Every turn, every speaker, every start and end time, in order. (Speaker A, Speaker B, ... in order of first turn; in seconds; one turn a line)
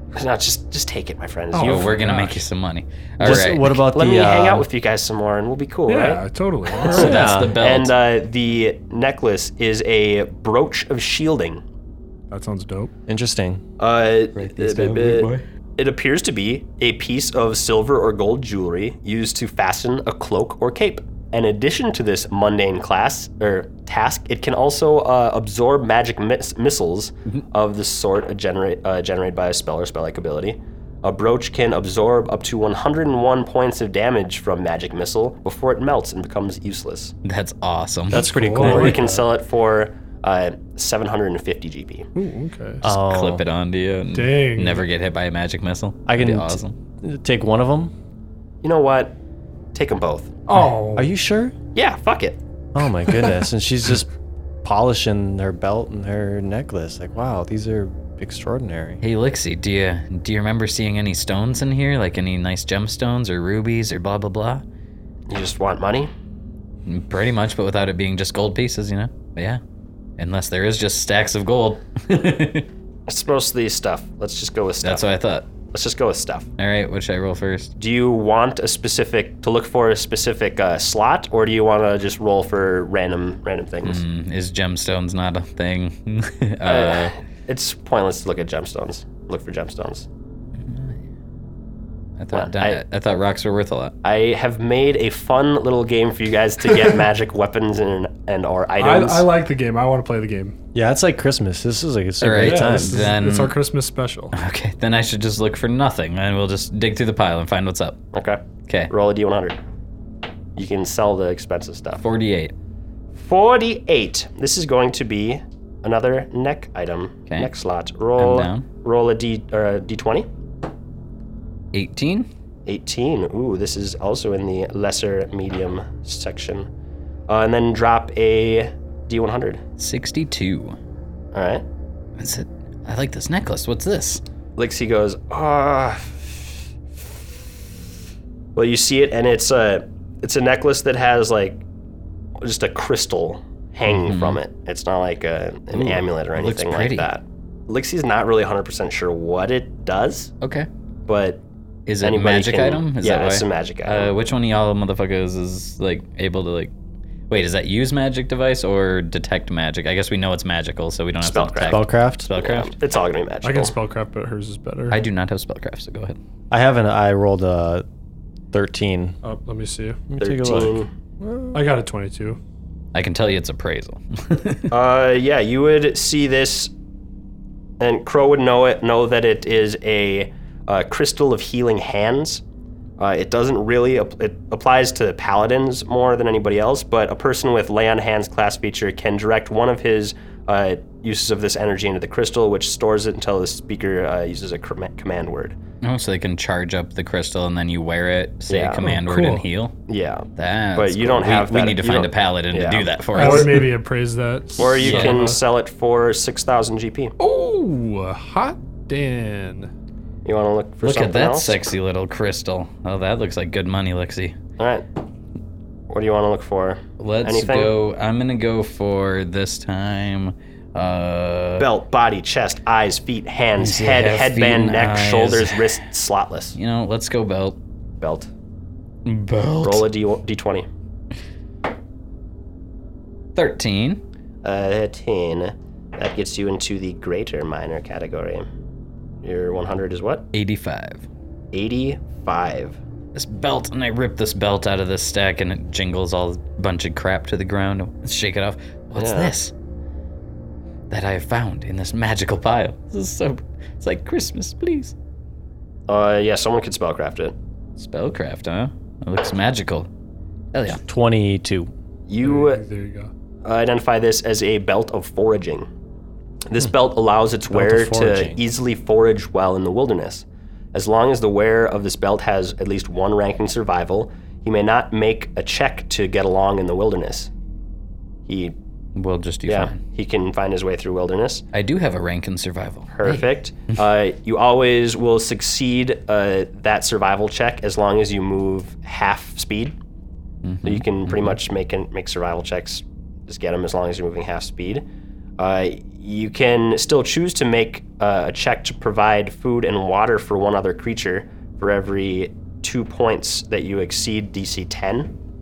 Speaker A: 0.1-2.0
Speaker B: 1.5-2.4
Speaker C: 1.6-3.8
Speaker D: 3.2-4.7
Speaker A: 3.2-6.2
Speaker B: 5.9-7.3
Speaker C: 6.8-7.9
Speaker D: 6.9-7.6
Speaker A: 7.6-11.6
Speaker B: 12.3-12.9
Speaker D: 13.1-13.6
Speaker A: 13.8-37.1
Speaker C: 14.3-15.4
Speaker C: 37.2-38.2
Speaker D: 38.1-39.2
Speaker B: 38.1-39.1
Speaker A: 38.6-42.1
Speaker B: 42.1-42.8
Speaker D: 42.8-43.4
Speaker C: 42.8-46.7
Speaker B: 44.1-44.8
Speaker D: 46.1-47.9
Speaker A: 48.6-49.1
Speaker A: 49.7-50.3
Speaker B: 50.5-51.1
Speaker D: 50.9-51.5
Speaker A: 51.7-52.4
Speaker D: 52.7-54.1
Speaker D: 54.6-59.0
Speaker C: 59.0-64.6
Speaker A: 65.3-66.1
Speaker C: 66.8-69.6
Speaker C: 70.2-72.7
Speaker A: 73.1-75.0
Speaker C: 74.8-75.5
Speaker A: 75.7-76.5
Speaker C: 76.6-77.7
Speaker A: 77.8-84.0
Speaker C: 83.8-87.1
Speaker A: 86.6-90.0
Speaker C: 90.7-90.9
Speaker C: 92.2-93.9
Speaker A: 92.3-92.8
Speaker A: 94.0-99.3
Speaker B: 98.8-100.5
Speaker D: 100.7-103.1
Speaker C: 102.2-103.5
Speaker B: 102.4-104.3
Speaker C: 104.3-108.0
Speaker A: 108.1-109.6
Speaker C: 108.7-108.9
Speaker A: 110.5-112.0
Speaker C: 112.0-112.5
Speaker A: 113.1-120.3
Speaker C: 118.2-118.7
Speaker C: 121.7-122.3
Speaker A: 122.7-126.7
Speaker A: 127.3-129.6
Speaker C: 129.8-130.8
Speaker A: 131.3-131.6
Speaker C: 132.2-134.2
Speaker A: 134.6-136.5
Speaker A: 138.5-141.6
Speaker A: 142.4-150.3
Speaker C: 143.9-144.4
Speaker C: 145.7-147.1
Speaker C: 150.4-150.7
Speaker A: 151.1-151.4
Speaker C: 151.9-156.7
Speaker A: 152.0-154.1
Speaker C: 157.3-162.7
Speaker A: 161.2-163.7
Speaker D: 161.7-162.3
Speaker B: 163.4-165.0
Speaker C: 164.9-166.2
Speaker D: 166.5-167.8
Speaker D: 168.5-169.1
Speaker B: 169.2-170.0
Speaker D: 170.1-171.6
Speaker A: 170.2-170.9
Speaker B: 171.5-172.4
Speaker C: 172.9-174.7
Speaker A: 174.7-176.7
Speaker A: 177.8-182.4
Speaker A: 183.0-195.6
Speaker C: 195.8-199.7
Speaker A: 198.5-198.9
Speaker B: 198.8-199.4
Speaker A: 199.9-203.6
Speaker C: 200.3-203.7
Speaker B: 203.1-205.4
Speaker A: 204.6-207.1
Speaker C: 204.6-205.2
Speaker B: 207.2-209.7
Speaker A: 210.2-211.6
Speaker C: 210.8-214.4
Speaker A: 214.6-214.8
Speaker A: 215.9-217.7
Speaker C: 217.0-221.7
Speaker A: 221.6-226.5
Speaker C: 223.6-225.6
Speaker C: 226.5-227.6
Speaker A: 228.0-228.3
Speaker C: 229.1-229.8
Speaker A: 229.6-230.7
Speaker C: 233.3-234.0
Speaker A: 234.4-238.5
Speaker A: 239.2-240.2
Speaker C: 240.3-241.0
Speaker A: 241.5-242.8
Speaker C: 243.1-249.5
Speaker A: 249.0-249.3
Speaker C: 250.9-254.9
Speaker A: 255.9-257.3
Speaker C: 257.8-259.9
Speaker C: 260.5-260.8
Speaker D: 260.8-261.7
Speaker A: 262.1-262.6
Speaker B: 262.2-263.1
Speaker A: 263.4-265.7
Speaker A: 266.5-277.3
Speaker D: 267.5-268.4
Speaker A: 278.3-278.5
Speaker C: 278.9-279.8
Speaker A: 279.5-281.4
Speaker C: 281.5-283.2
Speaker A: 282.9-289.7
Speaker C: 290.4-291.3
Speaker A: 290.6-294.8
Speaker A: 295.4-305.1